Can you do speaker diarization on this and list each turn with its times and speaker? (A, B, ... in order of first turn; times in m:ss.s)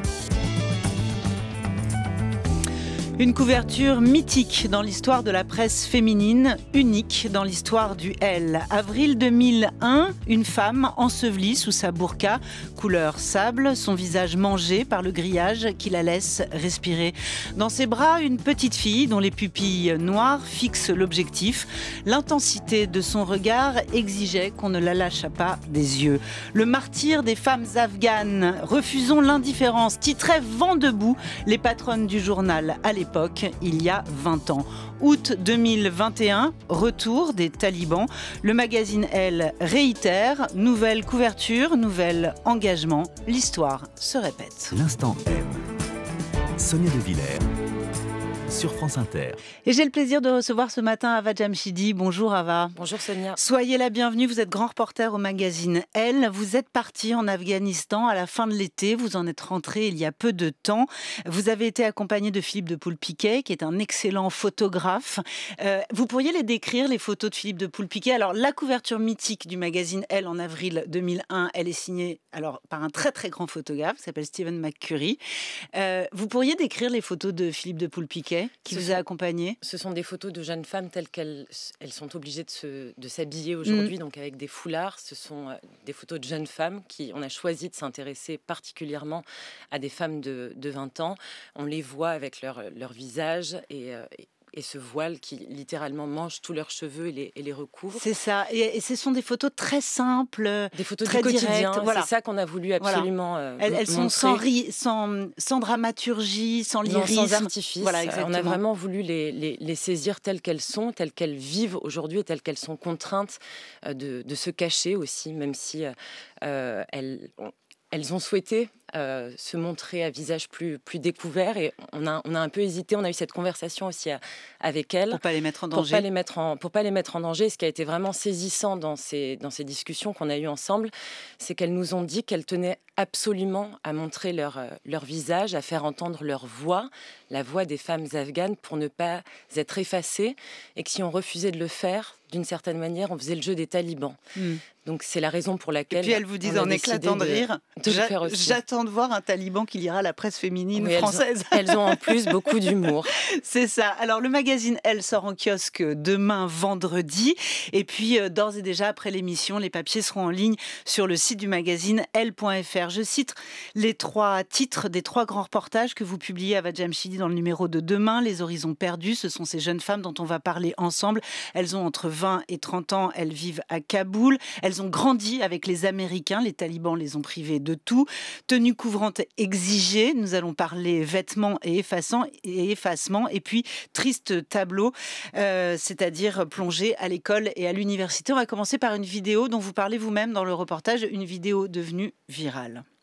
0:03.2-0:44.7 A
0:44.7-0:45.6 B
0:46.6-0:47.4 B
0:48.5-0:49.4 B
0:49.6-0:52.7 A
0:52.7-0:53.4 C
0:53.4-1:15.2 A
1:15.7-1:19.6 A
1:18.7-1:19.0 C
1:19.6-1:38.0 C
1:23.6-1:23.9 A
1:37.9-1:42.1 A
1:40.7-1:44.4 C
1:42.8-1:43.1 A
1:43.6-1:48.6 A
1:46.8-1:55.9 C
1:56.4-2:05.2 C
2:05.1-2:06.0 A
2:05.7-2:24.2 C
2:24.4-2:24.6 A
2:24.8-2:28.6 C
2:25.9-2:32.5 A
2:30.7-2:33.1 C
2:33.4-3:12.8 A